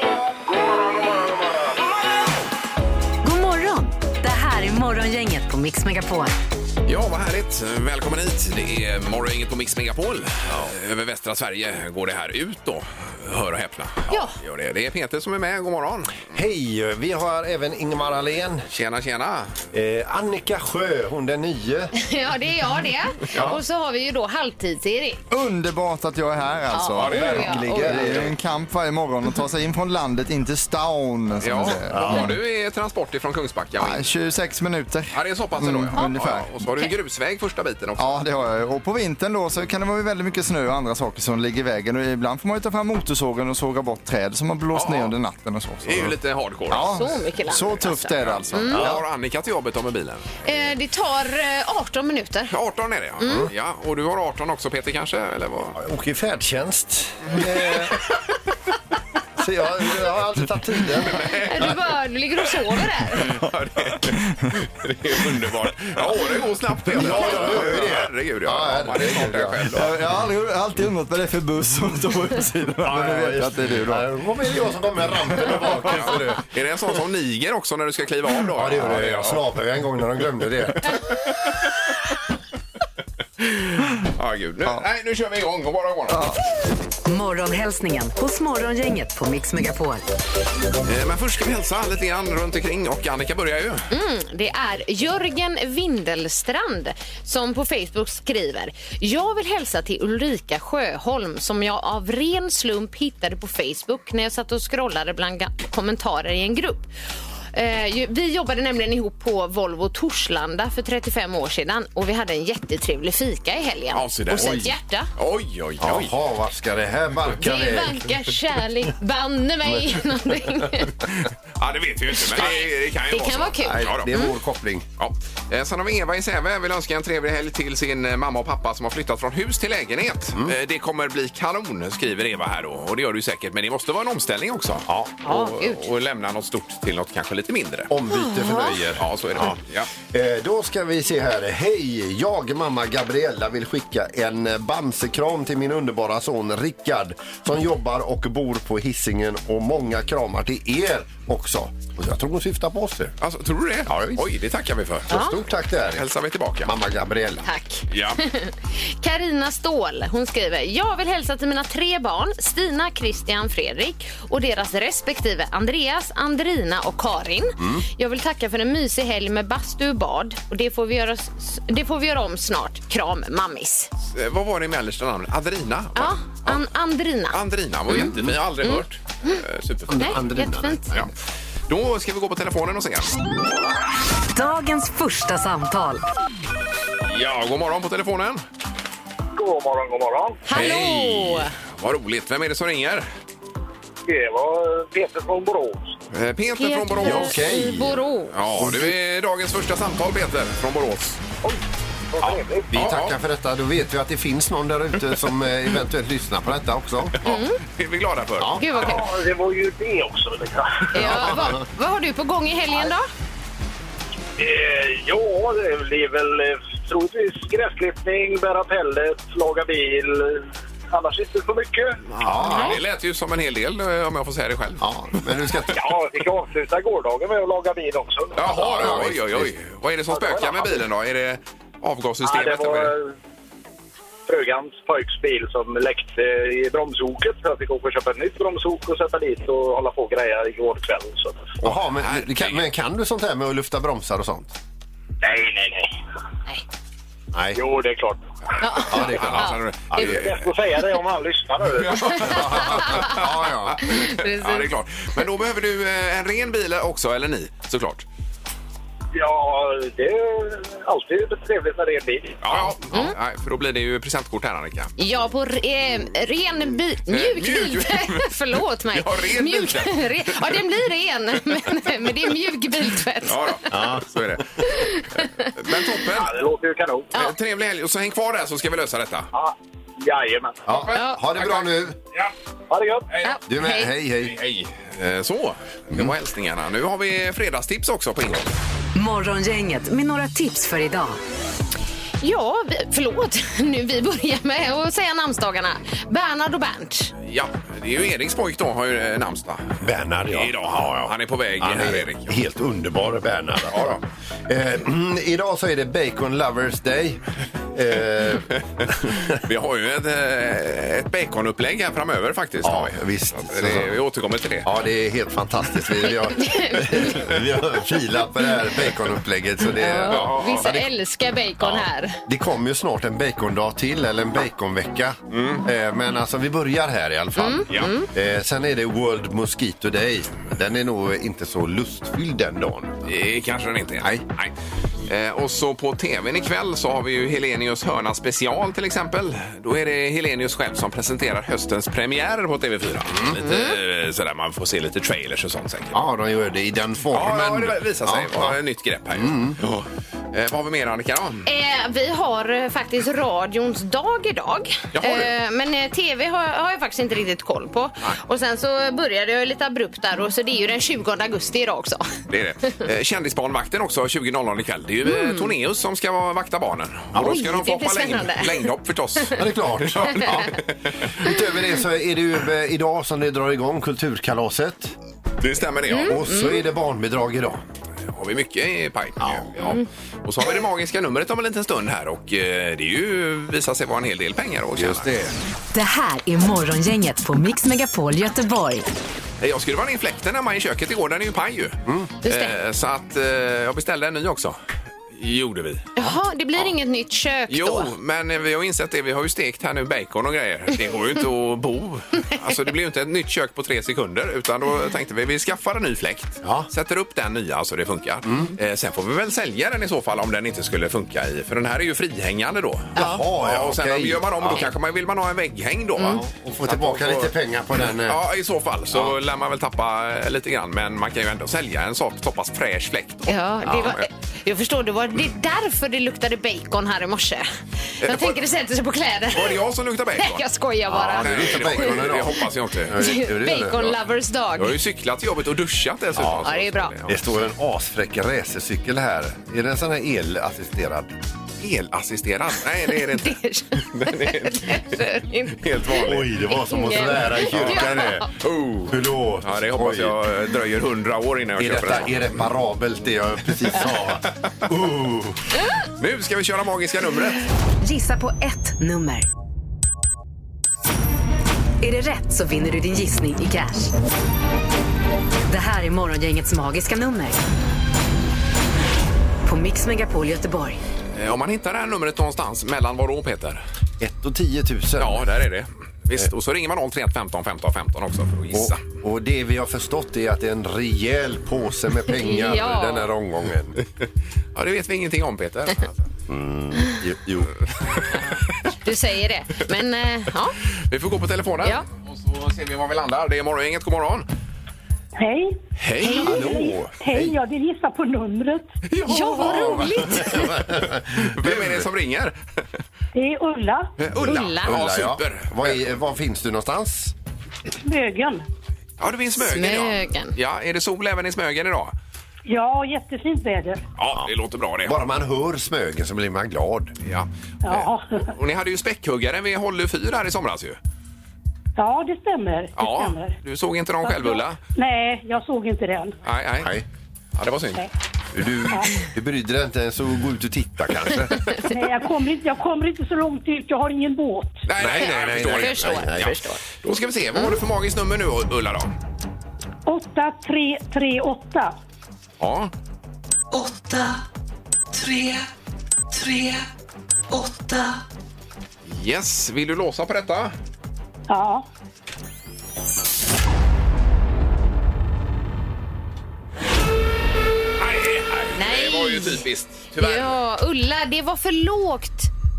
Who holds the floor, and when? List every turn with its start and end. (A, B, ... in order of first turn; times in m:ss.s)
0:00.6-0:01.0 A
0:03.2-0:06.3 B
0:06.9-0:16.3 C
0:14.1-0:14.3 D
0:16.3-0:18.6 E
0:18.7-0:19.6 C
0:19.7-0:21.9 E
0:22.0-0:25.2 D
0:23.3-0:23.6 E
0:25.3-0:32.3 F
0:26.7-0:28.1 D
0:27.0-0:27.5 C
0:27.2-0:28.3 E
0:31.4-0:34.1 C
0:31.9-0:32.3 E
0:33.8-0:36.6 F
0:35.1-0:38.1 C
0:38.0-0:46.2 F
0:44.7-0:45.2 C
0:45.8-0:47.0 C
0:46.7-0:49.0 F
0:46.8-0:48.8 D
0:48.1-0:50.4 C
0:48.7-0:49.0 E
0:50.4-0:52.5 D
0:52.5-0:55.8 C
0:53.2-0:53.5 D
0:53.2-0:53.5 E
0:55.8-0:58.1 E
0:59.4-1:01.8 E
1:01.0-1:01.8 C
1:01.5-1:03.4 D
1:03.1-1:10.0 C
1:06.9-1:09.4 E
1:09.0-1:14.1 F
1:12.8-1:16.5 E
1:15.7-1:19.4 C
1:18.6-1:21.0 E
1:23.4-1:26.3 C
1:26.1-1:26.4 F
1:27.1-1:30.0 B
1:30.8-1:33.9 C
1:33.9-1:46.9 D
1:47.5-1:55.1 D
1:53.9-1:56.1 C
1:54.3-1:54.7 E
1:55.8-1:58.1 E
1:57.4-2:01.0 D
1:59.7-2:00.4 E
2:01.6-2:04.1 C
2:02.4-2:04.3 D
2:03.6-2:04.9 E
2:05.0-2:17.9 C
2:15.2-2:15.8 D
2:17.9-2:33.2 E
2:18.1-2:18.8 D
2:19.0-2:19.9 C
2:33.2-2:35.2 C
2:33.9-2:34.2 E
2:35.1-2:36.1 E
2:35.1-2:35.4 D
2:35.9-2:36.7 C
2:36.6-2:37.4 E
2:37.4-2:53.9 D
2:37.9-2:38.2 C
2:47.6-2:47.8 E
2:54.0-2:56.7 C
2:56.0-2:57.4 D
2:57.3-3:00.2 C
2:57.9-2:58.4 E
2:58.6-2:59.4 D
2:59.9-3:01.1 E
3:00.0-3:00.9 D
3:01.7-3:03.2 C
3:04.3-3:06.0 B
3:07.1-3:08.4 C
3:09.4-3:10.4 A
3:10.5-3:11.5 D
3:10.5-3:13.1 C
3:14.1-3:16.0 A
3:16.1-3:17.5 C
3:16.6-3:18.4 D
3:17.0-3:18.0 E
3:18.3-3:21.2 C
3:18.6-3:19.0 E
3:22.1-3:22.7 A
3:22.2-3:23.2 C
3:22.7-3:27.2 E
3:27.2-3:27.6 D
3:27.2-3:28.6 C
3:28.4-3:28.7 E
3:28.6-3:29.1 D
3:28.8-3:30.9 A
3:30.9-3:33.1 D
3:34.4-3:42.0 A
3:42.1-3:44.9 C
3:42.2-3:42.8 E
3:42.4-3:42.8 D
3:44.8-3:45.8 E
3:45.7-3:49.0 A
3:48.4-3:53.0 C
3:48.6-3:49.5 E
3:50.1-3:50.7 A
3:52.2-3:53.1 A
3:54.3-4:01.6 A
4:01.6-4:04.6 E
4:01.7-4:02.6 C
4:05.2-4:05.9 A
4:07.3-4:07.6 E
4:07.6-4:08.2 A
4:08.6-4:09.6 D
4:08.9-4:10.2 E
4:08.9-4:10.5 C
4:10.0-4:12.5 A
4:11.8-4:18.0 C
4:12.2-4:13.8 E
4:12.8-4:13.2 D
4:13.8-4:14.7 D
4:19.1-4:22.4 A
4:22.4-4:24.9 C
4:25.0-4:33.6 D
4:27.1-4:30.5 C
4:33.2-4:34.9 C
4:33.7-4:34.0 E
4:34.6-4:35.5 D
4:35.6-4:36.3 C
4:36.1-4:37.1 A
4:37.2-4:39.3 C
4:39.3-4:40.7 A
4:40.7-4:42.0 E
4:40.7-4:41.8 C
4:40.9-4:41.2 D
4:42.7-4:43.1 A
4:43.2-4:43.9 D
4:43.5-4:44.4 E
4:44.2-4:48.5 C
4:49.0-4:51.2 B
4:52.2-4:57.1 D
4:57.2-5:02.4 C
4:59.8-5:07.2 E
5:03.7-5:04.0 C
5:07.7-5:09.4 E
5:09.3-5:14.7 C
5:12.6-5:13.9 E
5:14.6-5:20.9 E
5:16.4-5:17.1 D
5:19.8-5:22.2 D
5:20.1-5:20.8 C
5:22.3-5:33.0 E
5:25.3-5:25.6 C
5:27.4-5:28.1 D
5:33.1-5:34.5 C
5:35.0-5:46.0 C
5:43.1-5:43.4 E
5:43.4-5:43.8 D
5:45.9-5:48.6 E
5:47.1-5:51.5 C
5:49.1-5:49.6 E
5:51.4-6:02.1 D
5:54.9-5:55.3 C
6:02.3-6:10.6 C
6:05.0-6:05.5 D
6:07.2-6:08.7 D
6:09.4-6:15.0 E
6:15.4-6:16.3 C
6:15.9-6:16.6 D
6:16.0-6:17.6 E
6:18.1-6:25.1 C
6:19.2-6:19.6 E
6:24.8-6:25.3 E
6:25.7-6:28.9 B
6:29.4-6:34.6 C
6:31.9-6:32.1 E
6:32.2-6:32.6 D
6:35.2-6:36.0 C
6:36.0-6:37.9 D
6:37.5-6:57.4 C
6:46.4-6:46.7 E
6:48.3-6:48.5 E
6:53.0-6:53.2 D
6:53.0-6:54.7 E
6:56.0-6:56.2 D
6:56.1-6:58.2 E
6:58.0-7:04.1 C
7:03.3-7:07.5 D
7:03.7-7:04.0 E
7:08.0-7:09.6 D
7:08.0-7:08.4 C
7:09.3-7:10.4 C
7:10.2-7:12.3 D
7:10.9-7:14.0 E
7:11.0-7:13.0 C
7:13.0-7:14.8 D
7:14.6-7:17.2 C
7:16.2-7:16.5 E
7:16.4-7:16.9 D
7:17.1-7:21.2 E
7:21.6-7:25.0 C
7:22.9-7:28.3 D
7:25.6-7:26.3 C
7:26.0-7:28.4 E
7:27.5-7:32.4 C
7:28.9-7:30.2 E
7:31.6-7:35.4 E
7:36.0-7:37.4 C
7:37.8-7:39.3 B
7:41.8-7:43.9 B
7:45.5-7:47.4 B
7:49.4-7:50.8 B
7:51.2-7:53.6 C
7:54.0-7:55.3 E
7:55.0-7:58.8 C
7:58.5-8:03.8 E
8:02.1-8:03.1 D
8:04.6-8:06.1 C
8:06.3-8:07.6 E
8:08.8-8:10.6 D
8:10.9-8:14.3 C
8:15.2-8:18.7 G
8:15.8-8:16.7 C
8:16.0-8:16.4 D
8:16.2-8:17.4 E
8:18.9-8:22.4 C
8:19.1-8:20.5 D
8:19.3-8:21.8 E
8:23.1-8:23.9 G
8:24.0-8:25.8 C
8:24.2-8:24.8 D
8:24.6-8:27.1 E
8:27.8-8:28.5 G
8:29.0-8:31.9 C
8:29.4-8:30.3 D
8:32.5-8:33.8 G
8:34.0-8:35.0 C
8:34.8-8:37.0 E
8:37.0-8:40.8 C
8:37.6-8:38.3 G
8:41.8-8:43.4 G
8:42.8-8:44.6 C
8:44.0-8:46.2 G
8:46.2-8:46.8 C
8:46.6-8:46.8 E
8:47.4-8:47.9 C
8:48.3-8:51.7 E
8:51.6-8:54.6 G
8:54.7-8:58.9 C
8:54.8-8:56.3 E
8:55.0-8:56.6 D
8:59.9-9:01.8 G
9:02.4-9:02.7 C
9:03.5-9:04.2 H
9:04.9-9:05.5 H
9:06.1-9:06.7 H
9:07.3-9:08.0 H
9:08.9-9:10.6 C
9:11.3-9:11.7 G
9:17.8-9:20.4 C
9:18.6-9:19.4 D
9:20.0-9:22.3 D